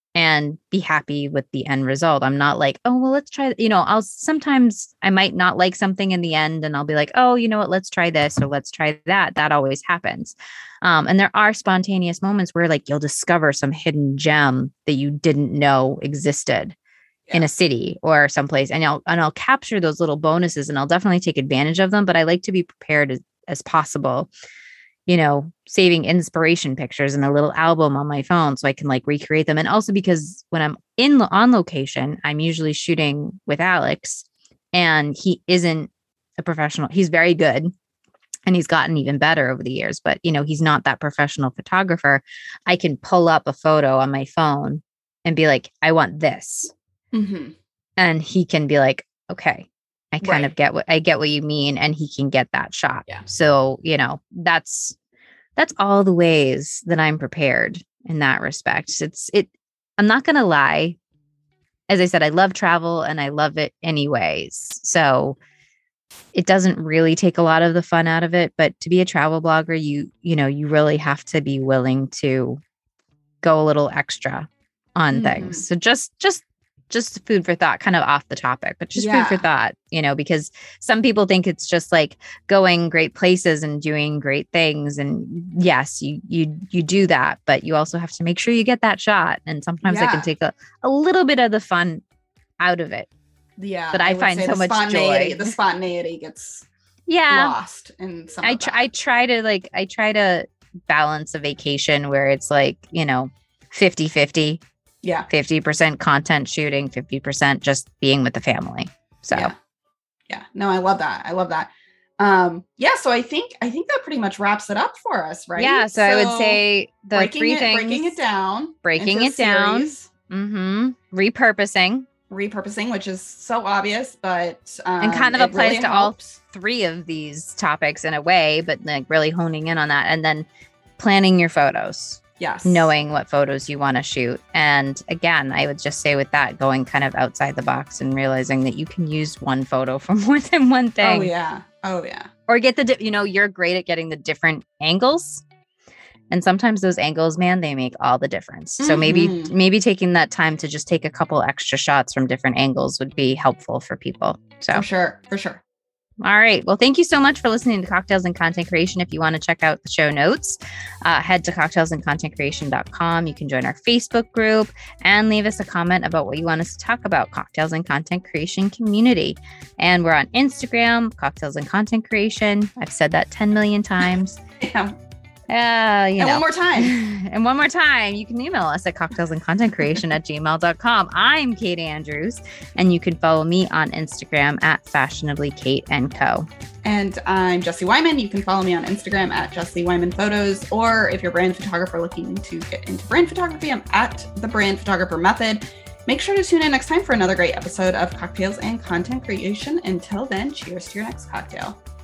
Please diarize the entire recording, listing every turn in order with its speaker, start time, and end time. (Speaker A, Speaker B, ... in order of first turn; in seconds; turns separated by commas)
Speaker A: 0.2-16.8, Speaker A: 17.3-24.3, Speaker A: 25.1-37.7, Speaker A: 38.5-46.7, Speaker B: 47.1-47.5, Speaker A: 48.0-55.0, Speaker B: 50.2-50.5, Speaker A: 55.6-61.0, Speaker A: 61.9-65.4, Speaker A: 66.3-72.6, Speaker A: 73.4-92.0, Speaker B: 75.1-75.6, Speaker B: 79.0-79.4, Speaker B: 89.8-90.3, Speaker A: 92.6-93.1, Speaker B: 93.6-96.7, Speaker A: 93.9-95.5, Speaker A: 97.1-97.5, Speaker B: 97.3-98.9, Speaker A: 98.4-104.6, Speaker A: 105.3-109.5, Speaker B: 110.3-116.6, Speaker A: 115.6-118.2, Speaker B: 117.1-120.1, Speaker A: 118.8-122.1, Speaker B: 122.3-126.3, Speaker A: 125.0-130.5, Speaker A: 131.0-141.3, Speaker B: 132.4-132.9, Speaker B: 141.0-142.3, Speaker A: 142.5-145.4, Speaker A: 146.3-154.8, Speaker B: 148.8-149.5, Speaker B: 154.7-155.6, Speaker A: 156.2-174.4, Speaker B: 174.6-174.9, Speaker A: 175.5-186.5, Speaker B: 176.2-176.9, Speaker B: 186.8-201.8